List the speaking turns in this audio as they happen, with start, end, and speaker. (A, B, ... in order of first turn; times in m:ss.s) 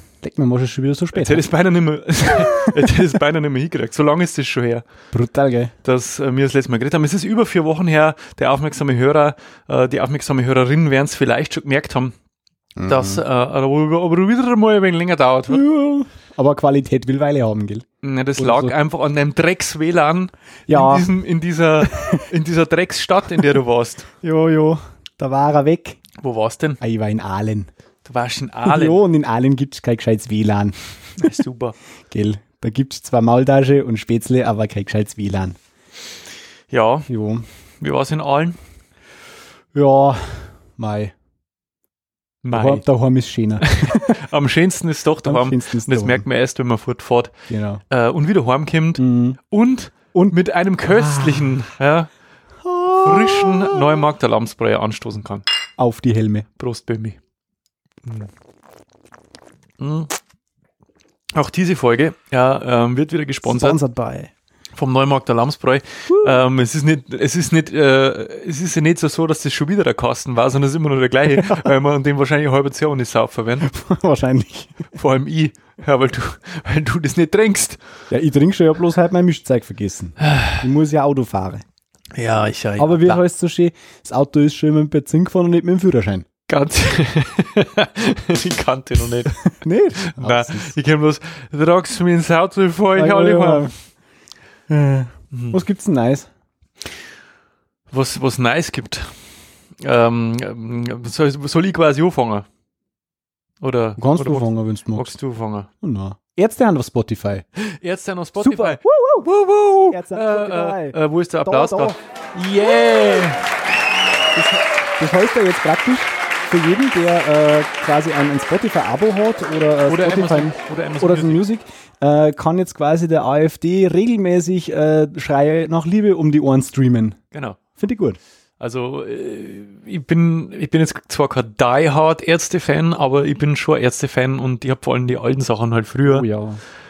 0:00.2-0:01.4 A
0:01.1-0:04.8 B
0:05.1-0:05.7 A
0:05.8-0:12.1 B
0:12.8-0:13.2 A
0:12.9-0:15.6 B
0:15.5-0:17.8 A
0:18.0-0:24.1 B
0:18.4-0:18.7 A
0:20.7-0:21.1 A
0:21.8-0:22.2 A
0:24.2-0:26.0 A
0:26.2-0:26.8 B
0:26.8-0:27.7 A
0:28.0-0:29.0 B
0:28.6-0:31.3 A
0:31.2-0:31.8 B
0:32.1-0:35.6 A
0:36.7-0:37.1 B
0:37.1-0:37.4 A
0:37.8-0:38.6 B
0:39.7-0:41.1 A
0:42.4-0:42.8 B
0:42.5-0:44.2 A
0:43.6-0:47.3 B
0:45.2-0:46.2 A
0:47.5-0:47.8 A
0:47.9-0:52.1 B
0:49.0-0:49.4 A
0:50.9-0:51.6 A
0:52.6-0:54.0 A
0:53.0-0:55.4 B
0:55.8-0:56.5 A
0:56.6-0:57.2 B
0:58.0-0:58.3 B
0:59.8-1:00.2 B
1:01.3-1:03.8 B
1:03.4-1:04.3 A
1:04.8-1:13.7 B
1:06.1-1:06.4 A
1:11.4-1:11.7 A
1:13.6-1:14.9 A
1:14.9-1:17.8 B
1:18.1-1:21.6 A
1:20.2-1:20.6 B
1:22.1-1:23.2 B
1:22.8-1:26.3 A
1:26.5-1:33.7 B
1:29.5-1:30.7 A
1:32.9-1:33.7 A
1:34.7-1:36.3 A
1:35.3-1:35.6 B
1:37.9-1:39.1 B
1:39.8-1:42.4 B
1:43.6-1:45.7 B
1:44.0-1:45.1 A
1:45.8-1:47.4 A
1:47.6-1:53.4 B
1:48.4-1:49.2 A
1:49.9-1:52.0 A
1:54.3-2:07.2 A
1:59.8-2:01.4 B
2:07.3-2:07.6 B
2:07.8-2:08.2 A
2:08.6-2:16.3 B
2:16.1-2:16.6 A